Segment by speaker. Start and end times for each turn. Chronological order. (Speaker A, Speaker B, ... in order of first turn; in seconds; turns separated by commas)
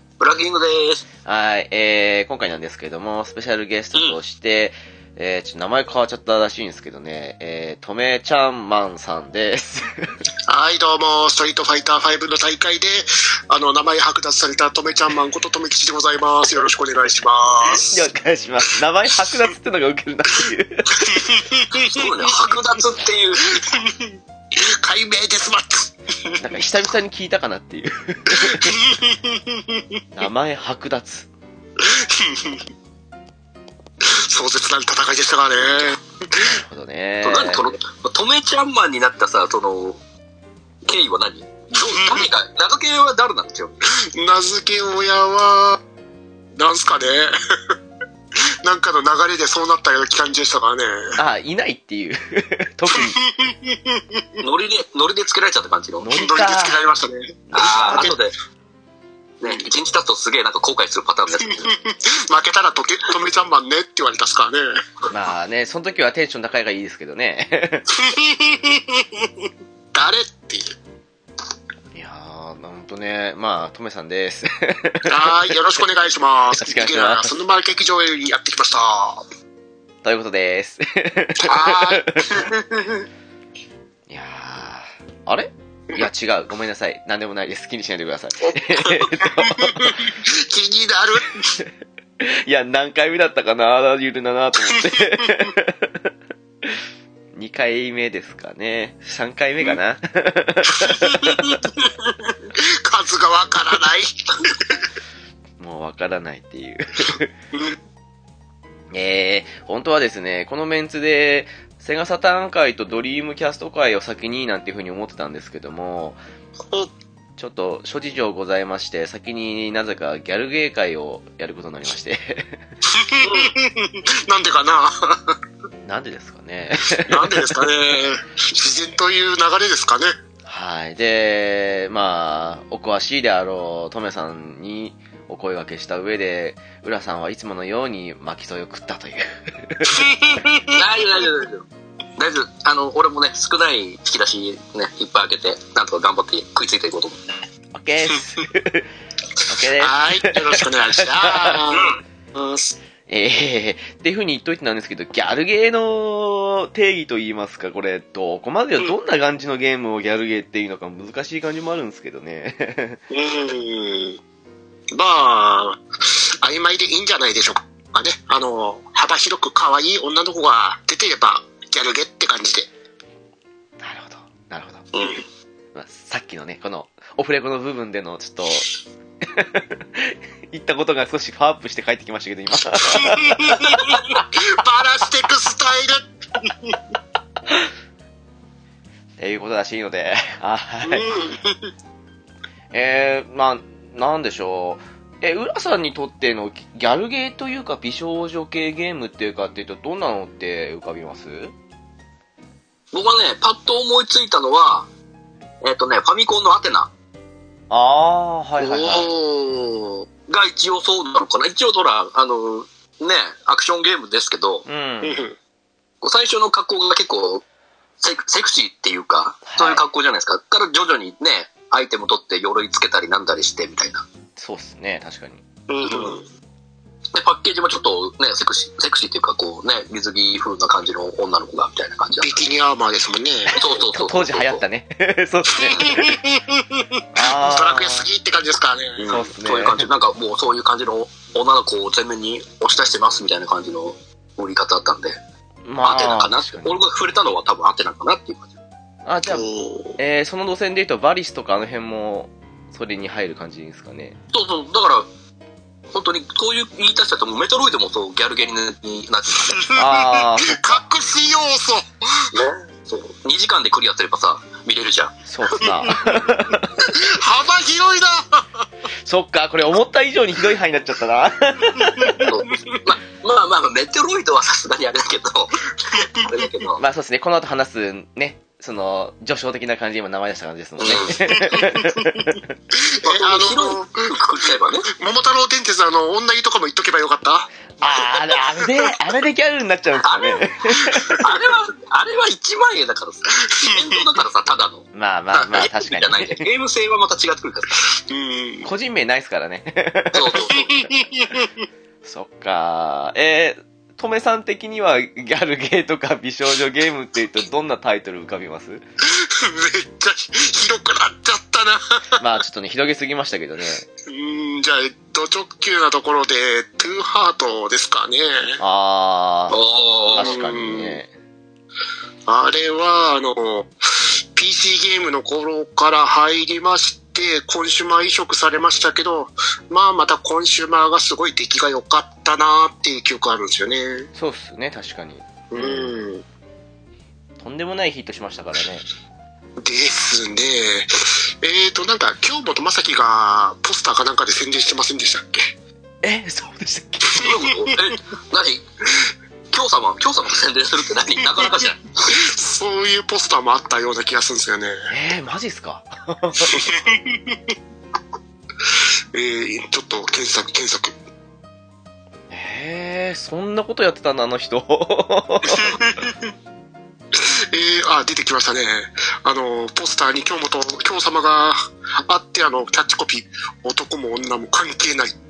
Speaker A: 0.2-1.1, Speaker B: 1.2-10.1, Speaker C: 10.5-18.0, Speaker B: 17.9-21.3, Speaker C: 21.0-22.9, Speaker A: 21.7-23.7, Speaker C: 23.4-26.4, Speaker B: 26.4-28.8, Speaker C: 28.3-30.0, Speaker B: 30.1-31.3, Speaker C: 31.8-32.6, Speaker C: 34.0-36.5, Speaker B: 36.4-37.7, Speaker A: 37.2-40.0, Speaker A: 40.9-43.8, Speaker C: 41.8-42.3, Speaker C: 44.0-45.8, Speaker C: 46.5-47.7, Speaker C: 48.6-51.2, Speaker B: 51.1-53.2, Speaker C: 52.9-54.4, Speaker A: 54.4-56.1, Speaker B: 56.0-56.8, Speaker C: 56.1-58.2, Speaker B: 57.5-58.1, Speaker A: 57.5-58.3, Speaker A: 59.4-61.8, Speaker C: 61.4-64.7, Speaker B: 65.1-67.8, Speaker C: 67.9-70.7, Speaker B: 71.9-75.6, Speaker C: 75.0-79.2, Speaker B: 76.5-77.3, Speaker B: 80.0-82.5, Speaker C: 81.4-83.0, Speaker B: 84.1-90.1, Speaker C: 88.4-91.5, Speaker B: 91.5-96.1, Speaker C: 94.7-95.5, Speaker B: 97.3-101.6, Speaker C: 100.7-104.8, Speaker B: 105.6-107.3, Speaker B: 108.9-116.2, Speaker B: 117.4-122.6, Speaker C: 122.8-125.4, Speaker A: 123.2-123.5, Speaker B: 125.8-127.6, Speaker C: 126.9-130.1, Speaker B: 130.4-140.1, Speaker C: 139.9-140.8, Speaker A: 140.7-141.6, Speaker A: 142.2-147.4, Speaker B: 147.7-148.9, Speaker B: 149.4-151.7, Speaker C: 149.8-152.7, Speaker A: 151.7-152.0, Speaker B: 153.1-163.0, Speaker C: 163.1-164.2, Speaker C: 164.9-172.7, Speaker B: 173.8-174.9, Speaker A: 174.9-175.2, Speaker B: 175.7-184.2, Speaker C: 182.8-186.8, Speaker B: 189.2-191.1, Speaker C: 190.8-191.7, Speaker B: 192.7-201.5, Speaker A: 202.9-204.9, Speaker A: 205.6-206.9, Speaker B: 207.7-209.1, Speaker C: 208.6-210.1, Speaker A: 210.3-214.6, Speaker B: 214.7-215.3, Speaker C: 215.0-215.3, Speaker A: 216.0-217.4, Speaker A: 218.0-224.0, Speaker B: 219.4-219.8, Speaker B: 224.4-225.4, Speaker C: 225.7-226.2, Speaker A: 225.8-226.2, Speaker A: 227.1-232.4, Speaker C: 232.1-233.5, Speaker A: 233.5-234.6, Speaker B: 233.6-236.2, Speaker C: 235.6-239.1, Speaker B: 237.1-238.1, Speaker A: 239.0-245.2, Speaker B: 239.1-239.9, Speaker B: 245.6-246.8, Speaker A: 245.8-248.5, Speaker B: 249.1-249.4, Speaker C: 249.2-250.0, Speaker B: 250.0-254.2, Speaker A: 254.3-255.1, Speaker A: 255.9-259.8, Speaker C: 259.5-262.4, Speaker B: 259.7-260.8, Speaker A: 262.3-265.7, Speaker B: 265.2-266.8, Speaker C: 266.8-268.4, Speaker B: 269.1-272.3, Speaker C: 271.8-272.4, Speaker A: 272.2-276.8, Speaker C: 275.9-276.4, Speaker B: 276.8-282.5, Speaker A: 280.8-281.2, Speaker C: 281.3-282.2, Speaker C: 282.7-287.5, Speaker A: 283.0-284.9, Speaker B: 287.8-291.3, Speaker A: 290.0-290.5, Speaker A: 291.1-294.8, Speaker C: 293.6-294.0, Speaker B: 294.9-296.5, Speaker A: 295.6-297.8, Speaker C: 297.9-298.7, Speaker B: 298.6-300.6, Speaker A: 300.1-300.8, Speaker C: 300.5-301.5, Speaker B: 302.0-308.8, Speaker C: 309.0-311.9, Speaker B: 312.1-313.9, Speaker C: 314.1-318.6, Speaker B: 318.6-319.6, Speaker A: 319.5-320.3, Speaker B: 320.1-321.1, Speaker C: 320.1-321.0, Speaker C: 322.3-334.1, Speaker B: 334.1-336.0, Speaker C: 335.5-336.2, Speaker B: 337.4-338.9, Speaker C: 339.6-345.5, Speaker B: 346.0-347.4, Speaker A: 347.2-348.6, Speaker C: 347.2-347.7, Speaker A: 349.5-351.9, Speaker C: 351.2-354.9, Speaker B: 354.9-356.7, Speaker C: 356.4-357.5, Speaker C: 358.6-360.9, Speaker B: 362.3-365.8, Speaker C: 365.4-366.3, Speaker C: 367.1-375.1